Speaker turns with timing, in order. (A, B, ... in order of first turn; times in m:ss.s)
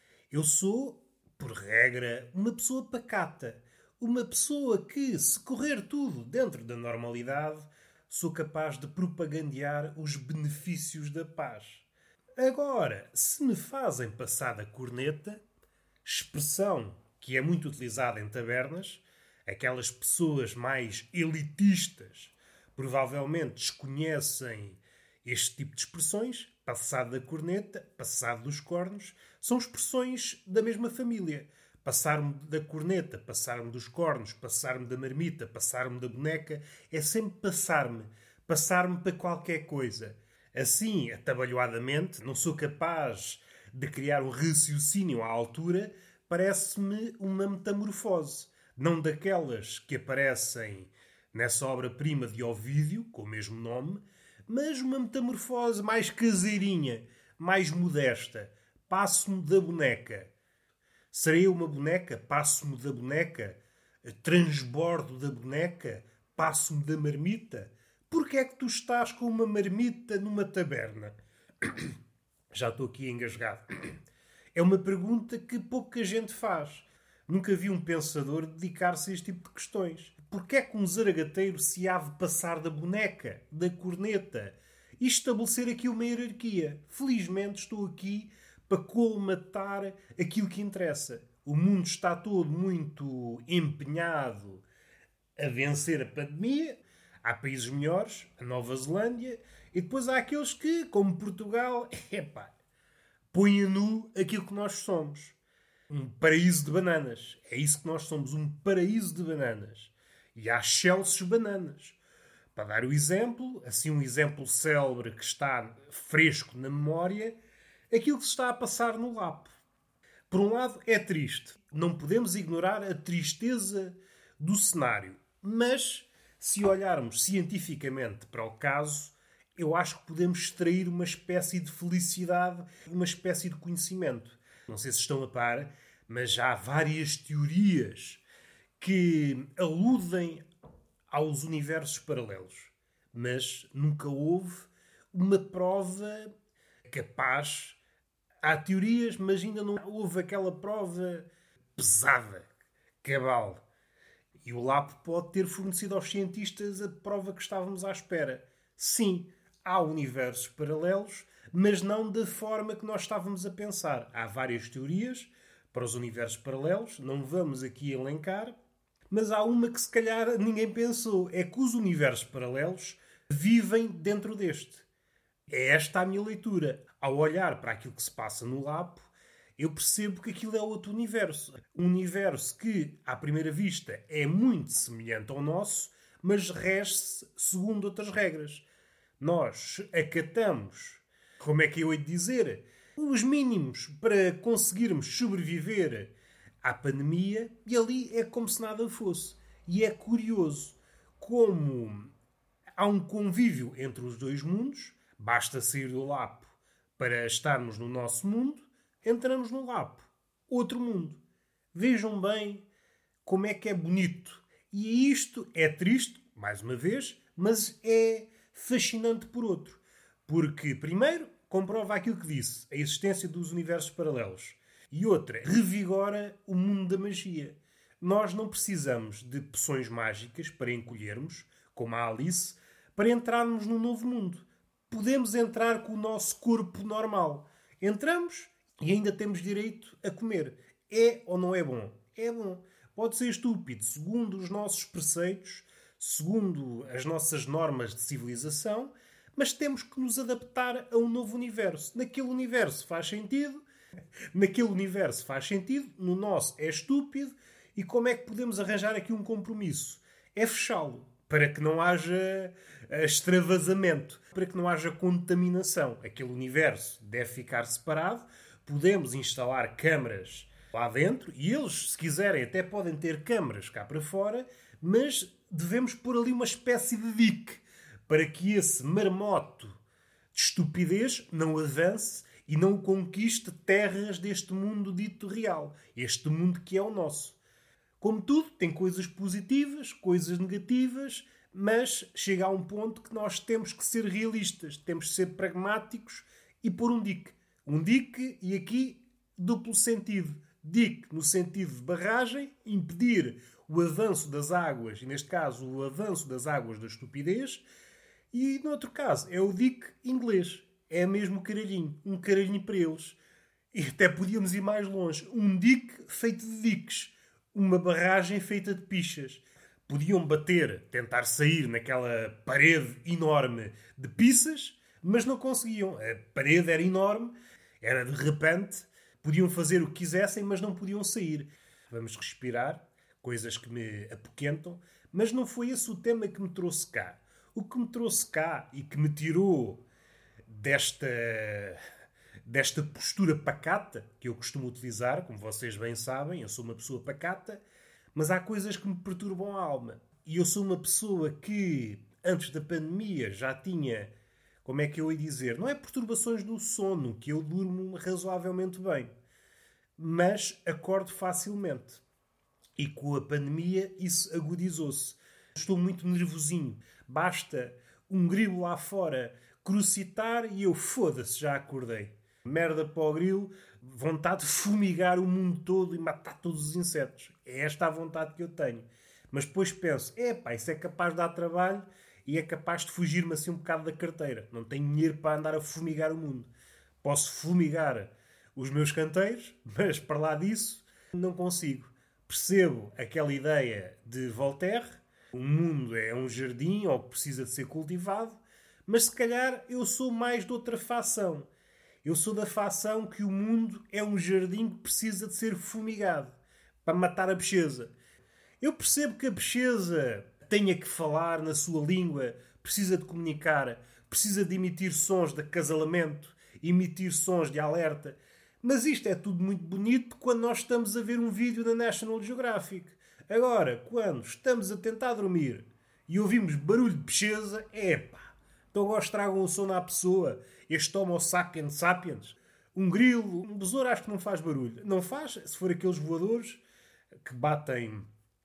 0:00.3-0:11.8 A
0:12.4-0:15.4 A
0:16.0-1:00.3 A
1:01.1-1:11.9 A
1:12.5-1:14.0 A
1:14.5-1:34.6 A
1:35.4-1:42.5 A
1:43.3-1:45.4 A
1:45.9-1:52.0 A
1:52.5-1:57.4 A
1:57.9-1:59.5 A
2:00.3-2:18.2 A
2:18.8-2:20.4 A
2:21.1-2:26.3 A
2:26.9-2:27.8 A
2:28.4-2:32.5 A
2:33.0-2:33.6 A
2:34.4-2:48.6 A
2:49.1-2:54.9 A
2:55.5-3:08.7 A
3:09.2-3:22.1 A
3:22.8-3:31.2 A
3:31.7-3:32.7 A
3:33.2-4:13.6 A
4:14.3-4:39.8 A
4:40.3-4:47.4 A
4:48.0-5:07.6 A
5:08.3-5:13.2 A
5:13.7-5:39.8 A
5:40.4-5:41.8 A
5:42.4-5:47.6 A
5:48.1-5:54.1 A
5:54.6-5:59.1 A
6:00.0-6:02.0 A
6:02.8-6:26.5 A
6:27.0-6:41.5 A
6:42.0-6:47.9 A
6:48.6-7:16.6 A
7:17.2-7:18.1 A